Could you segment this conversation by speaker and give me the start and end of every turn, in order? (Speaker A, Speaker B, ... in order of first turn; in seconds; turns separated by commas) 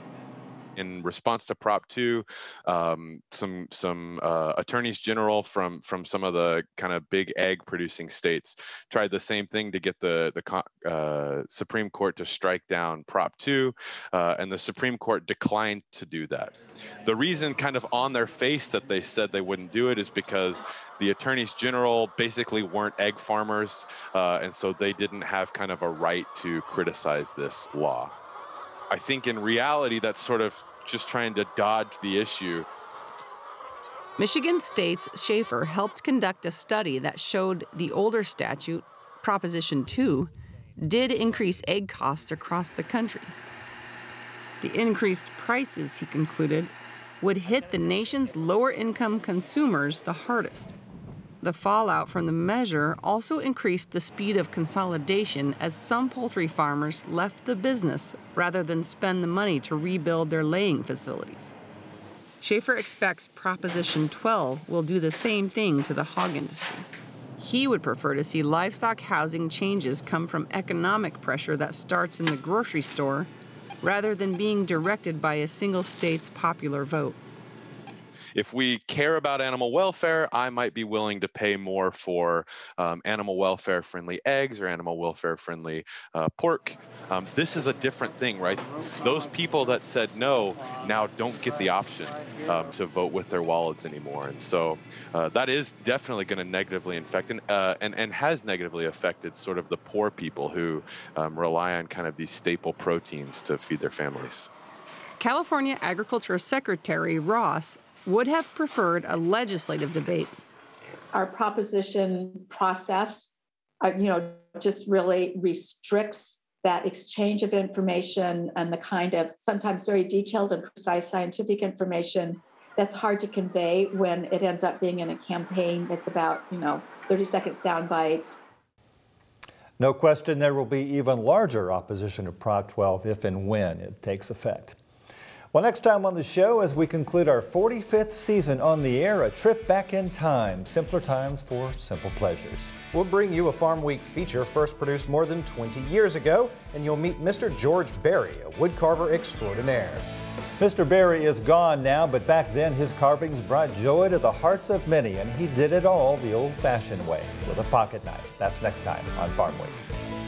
Speaker A: 0.8-28.1, Speaker A: 28.9-32.7, Speaker B: 34.2-43.3, Speaker B: 44.6-50.7, Speaker B: 51.4-61.5, Speaker B: 62.4-66.8, Speaker B: 67.4-73.3, Speaker B: 73.8-77.2, Speaker A: 78.3-104.5, Speaker B: 105.2-110.3, Speaker C: 111.1-128.4, Speaker D: 129.8-134.8, Speaker D: 135.5-142.8, Speaker E: 142.9-150.1, Speaker D: 150.6-159.8